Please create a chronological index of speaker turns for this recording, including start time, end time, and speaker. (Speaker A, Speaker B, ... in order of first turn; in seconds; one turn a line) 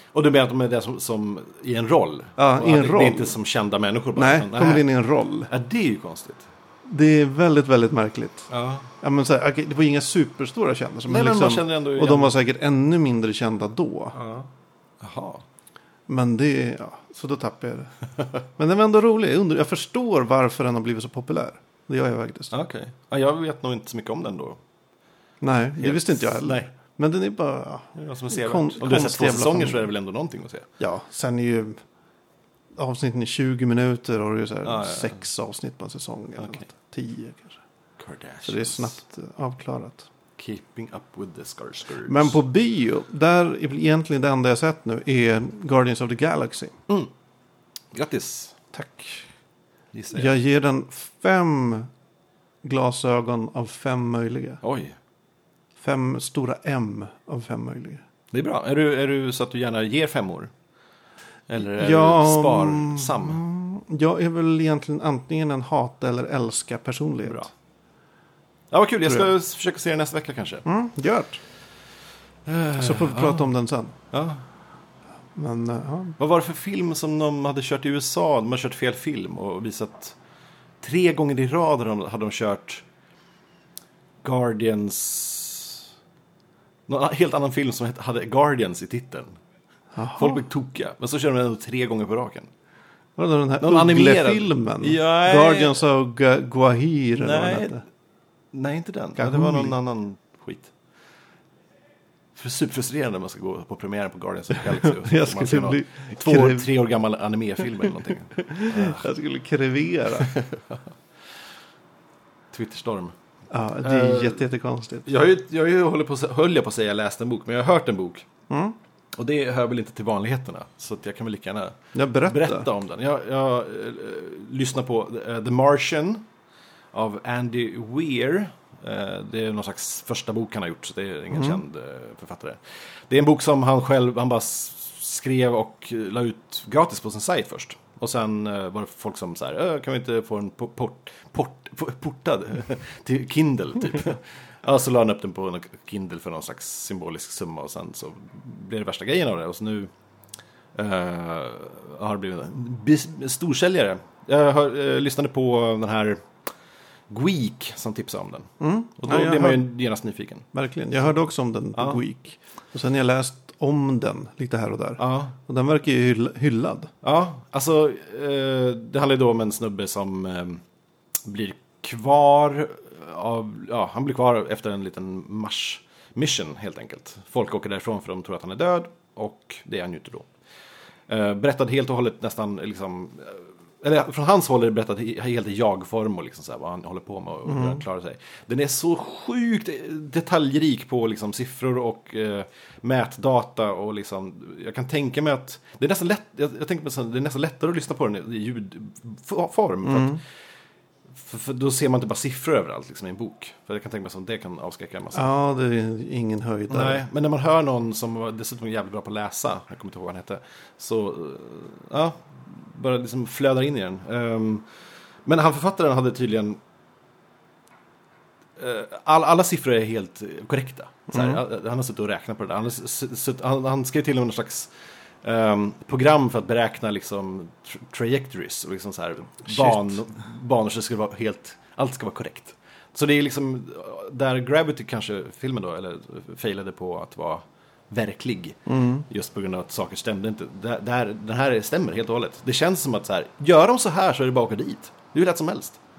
Speaker A: 0.1-4.9
Speaker B: 2.4-3.4
Speaker B: 4.2-5.5
Speaker A: 5.5-6.5
Speaker B: 6.9-8.5
Speaker A: 8.5-8.9
Speaker B: 9.0-14.2
Speaker A: 11.1-12.3
Speaker A: 14.2-14.5
Speaker A: 15.0-15.4
Speaker B: 16.1-17.9
Speaker B: 18.6-22.5
Speaker A: 22.5-24.6
Speaker B: 25.4-29.9
Speaker A: 25.8-26.7
Speaker A: 27.9-30.7
Speaker B: 30.8-31.8
Speaker B: 32.8-37.6
Speaker A: 34.6-35.2
Speaker A: 36.4-36.7
Speaker A: 38.0-39.0
Speaker B: 38.5-40.1
Speaker A: 40.4-42.4
Speaker B: 42.0-46.8
Speaker A: 47.9-48.6
Speaker B: 48.7-49.3
Speaker A: 49.9-50.3
Speaker B: 50.1-51.9
Speaker B: 52.6-54.6
Speaker A: 54.6-55.0
Speaker B: 55.8-58.0
Speaker A: 58.3-60.5
Speaker A: 61.5-63.4
Speaker B: 61.6-67.5
Speaker A: 67.2-67.5
Speaker A: 68.7-70.7
Speaker B: 70.7-71.4
Speaker A: 72.5-73.5
Speaker B: 72.8-74.0
Speaker A: 74.1-74.4
Speaker B: 75.3-76.2
Speaker A: 76.2-80.2
Speaker A: 80.8-82.8
Speaker A: 84.2-85.8
Speaker A: 86.9-89.4
Speaker B: 90.0-90.4
Speaker A: 90.2-92.5
Speaker B: 93.2-97.8
Speaker A: 93.6-95.8
Speaker A: 97.2-97.8
Speaker A: 98.5-100.7
Speaker B: 99.2-99.8
Speaker A: 102.4-109.0
Speaker B: 104.7-106.7
Speaker B: 108.4-110.3
Speaker A: 110.2-110.8
Speaker A: 112.5-113.1
Speaker B: 113.5-115.1
Speaker A: 113.8-114.4
Speaker A: 115.1-118.3
Speaker B: 118.5-118.8
Speaker A: 119.2-126.2
Speaker B: 121.9-122.7
Speaker A: 126.9-149.9
Speaker B: 131.3-131.6
Speaker A: 150.8-156.3
Speaker A: 157.1-160.5
Speaker B: 158.6-159.7
Speaker B: 160.5-166.9
Speaker A: 161.8-162.0
Speaker A: 165.0-165.3
Speaker A: 167.0-170.6
Speaker A: 171.2-180.3
Speaker A: 181.1-200.2
Speaker B: 187.5-187.8
Speaker B: 199.8-200.2
Speaker A: 201.2-205.3
Speaker B: 205.1-207.0
Speaker A: 206.7-214.7
Speaker A: 215.3-216.6
Speaker A: 218.6-224.7
Speaker B: 221.1-221.4
Speaker A: 225.2-245.8
Speaker B: 229.5-230.0
Speaker B: 238.7-239.1